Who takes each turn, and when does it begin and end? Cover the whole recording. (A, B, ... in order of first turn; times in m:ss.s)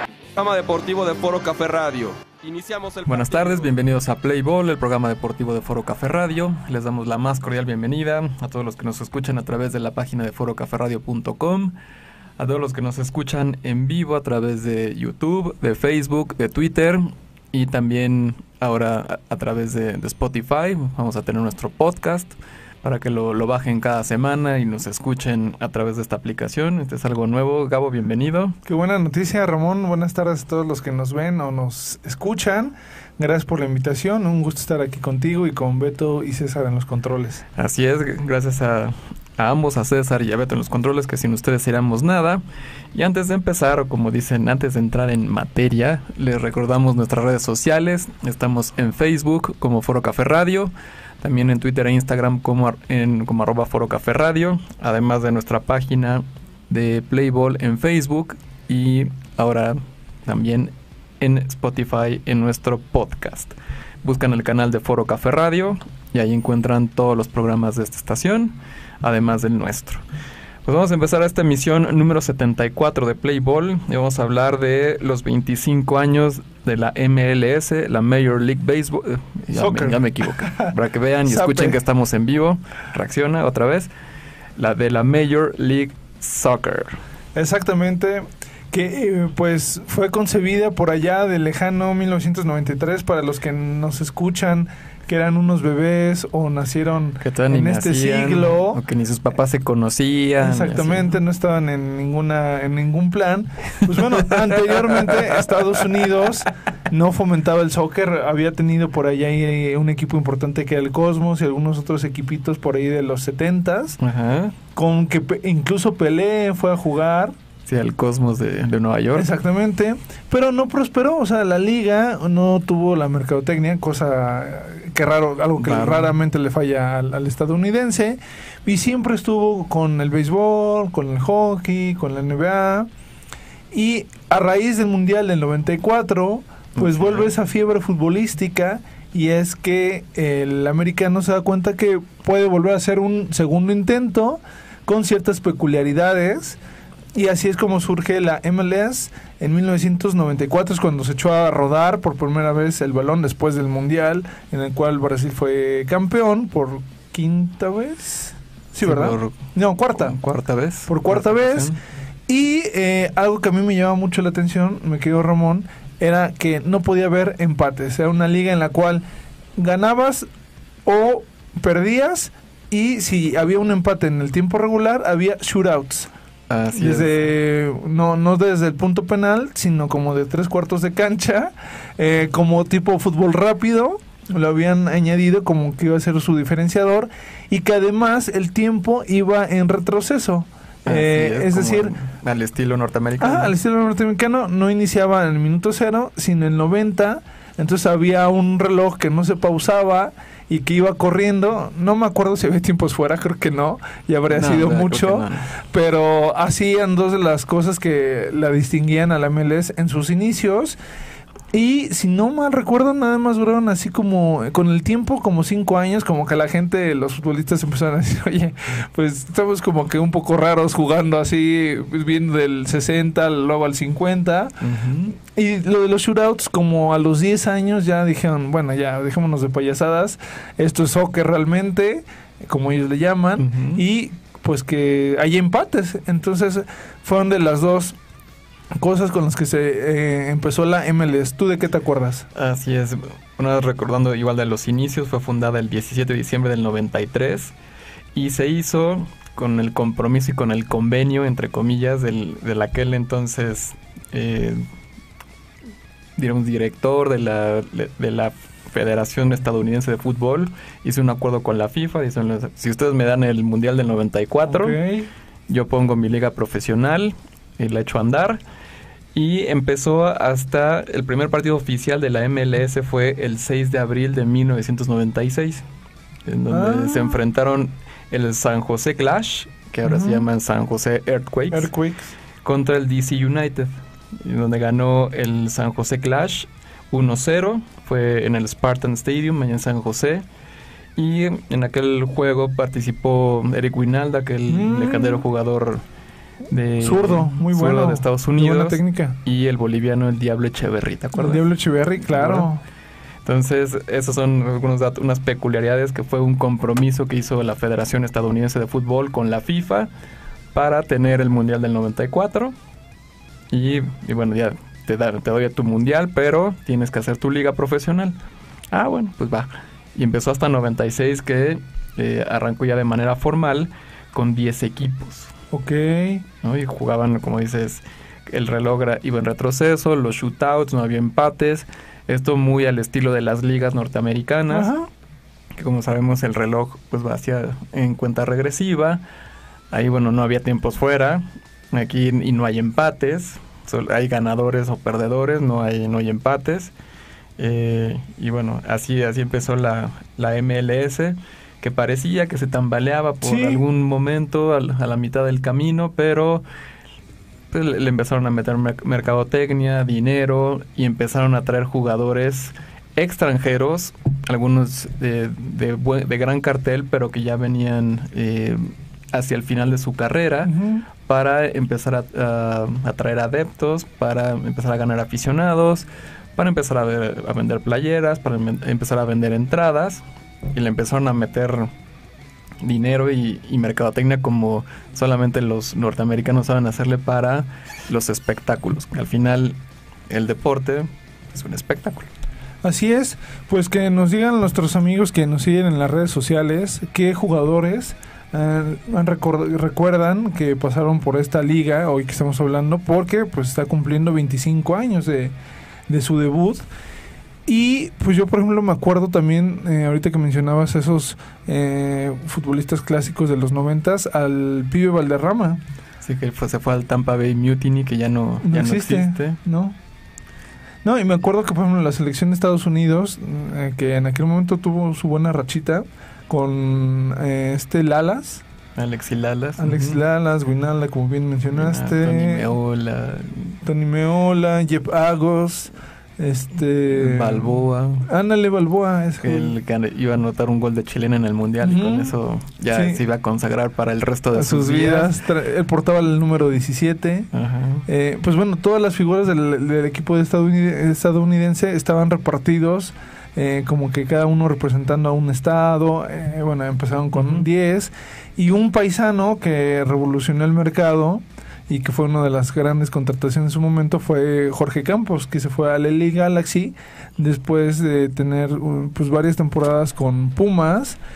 0:00.4-0:03.7 A
0:03.0-0:11.7 B
0:12.4-0:28.6 B
0:28.6-0:37.4 C
0:37.6-0:42.4 B
0:42.9-1:10.0 B
1:10.6-1:23.9 B
1:19.5-1:20.7 C
1:21.2-1:21.8 C
1:24.6-1:27.0 B
1:27.3-1:38.8 C
1:37.2-1:41.1 B
1:40.4-1:54.0 C
1:44.0-1:45.2 B
1:54.0-1:54.6 B
1:54.7-1:57.3 C
1:57.6-1:59.3 B
1:59.1-2:12.9 C
2:05.6-2:06.1 B
2:13.7-2:26.6 C
2:16.8-2:17.3 B
2:27.1-2:40.2 C
2:38.8-2:41.8 B
2:40.9-2:41.7 C
2:42.3-2:49.0 C
2:49.6-2:50.3 C
2:50.8-2:56.1 C
2:56.5-2:57.2 B
2:56.7-3:11.9 C
3:10.8-3:13.5 B
3:13.2-3:30.8 C
3:24.3-3:25.5 B
3:31.5-3:44.6 C
3:44.6-3:45.1 B
3:45.2-3:58.0 C
3:53.4-3:53.8 B
3:58.8-4:02.3 C
4:02.3-4:07.5 B
4:08.1-4:14.6 B
4:16.2-4:24.8 B
4:24.4-4:25.1 C
4:25.5-4:28.4 B
4:29.1-4:35.6 B
4:36.2-4:41.7 B
4:36.5-4:37.2 C
4:39.8-4:40.2 C
4:41.5-4:42.1 C
4:42.4-4:50.2 B
4:51.0-4:55.8 B
4:54.5-4:55.2 C
4:56.5-5:01.4 B
4:56.8-4:59.2 C
5:01.2-5:02.6 C
5:02.1-5:02.5 B
5:03.2-5:09.9 B
5:10.5-5:12.5 B
5:13.5-5:18.2 B
5:18.7-5:25.3 B
5:25.5-5:26.2 C
5:26.4-5:34.7 B
5:34.5-5:34.9 C
5:35.5-5:39.0 B
5:39.7-5:46.7 B
5:47.4-5:56.4 B
5:53.2-5:53.6 C
5:57.5-6:21.7 B
6:10.4-6:10.8 C
6:22.6-6:29.6 B
6:30.1-6:32.1 B
6:32.6-6:45.3 C
6:45.9-6:46.6 C
6:47.4-6:55.6 C
6:56.0-6:59.4 B
6:58.4-6:59.8 C
7:00.8-7:08.4 C
7:08.8-7:10.0 B
7:09.6-7:12.6 C
7:11.5-7:13.6 B
7:13.6-7:19.6 C
7:16.9-7:18.1 B
7:19.2-7:25.2 B
7:21.6-7:22.1 C
7:22.7-7:23.0 C
7:24.3-7:27.3 C
7:27.3-7:27.8 B
7:27.8-7:51.0 C
7:37.1-7:37.4 B